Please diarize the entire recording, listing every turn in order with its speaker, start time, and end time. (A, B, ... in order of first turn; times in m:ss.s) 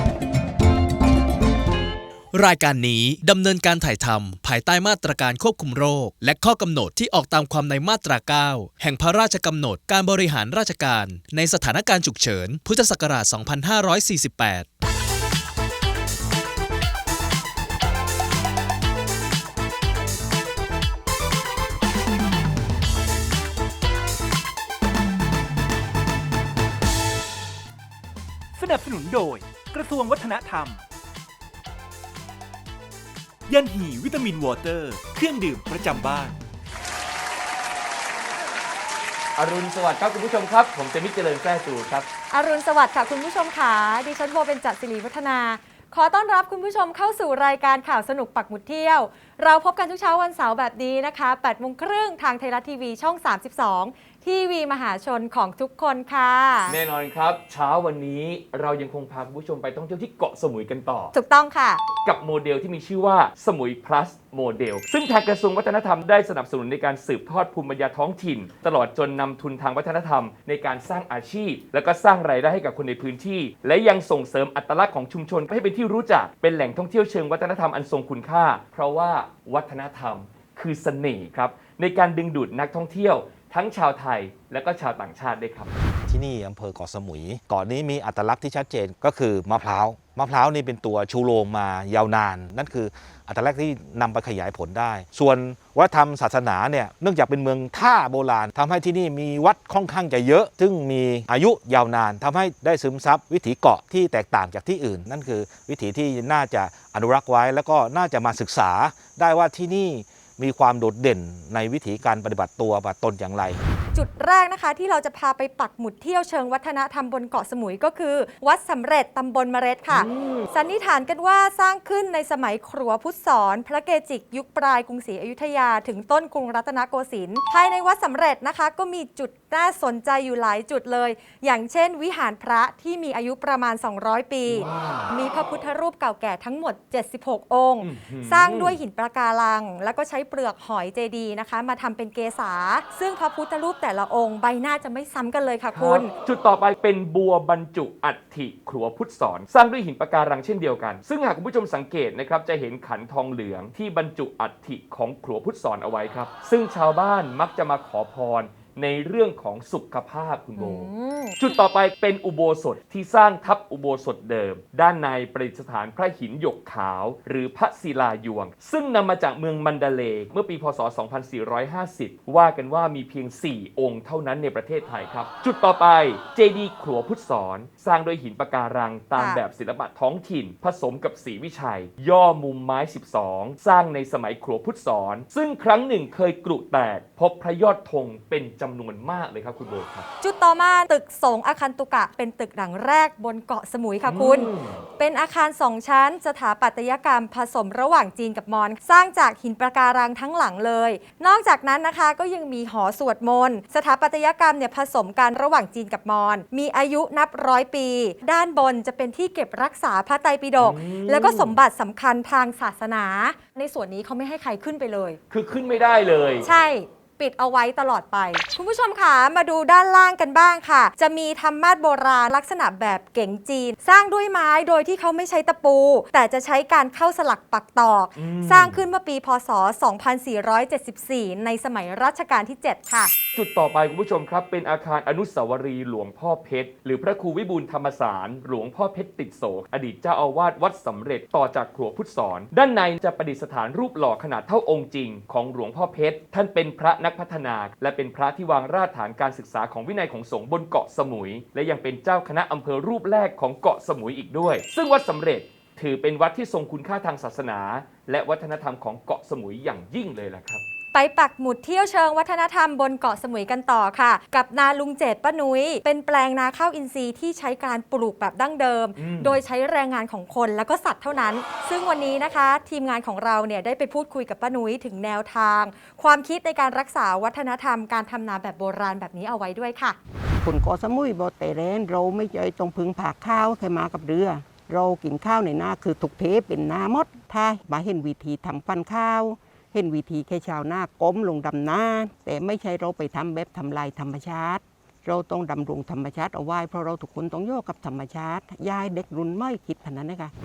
0:02.3-0:14.7 A
0:28.6-0:30.8 B
0:33.5-0:36.4 B
0:39.4-0:42.1 C
0:42.3-0:56.8 D
0:56.7-1:01.2 C
1:01.1-1:01.8 D
1:02.0-1:25.7 C
1:26.1-1:53.6 E
1:53.9-2:26.1 D
1:59.9-2:00.5 C
2:14.5-2:15.2 C
2:17.8-2:18.8 C
2:25.7-3:10.1 C
2:40.6-2:41.6 D
2:59.2-2:59.4 D
3:10.2-3:35.2 D
3:14.0-3:14.8 C
3:30.6-3:31.6 C
3:35.3-3:36.5 C
3:36.4-3:53.1 D
3:48.2-3:48.8 C
3:53.4-4:20.6 C
4:20.9-4:40.0 D
4:29.0-4:29.4 C
4:40.4-5:00.3 F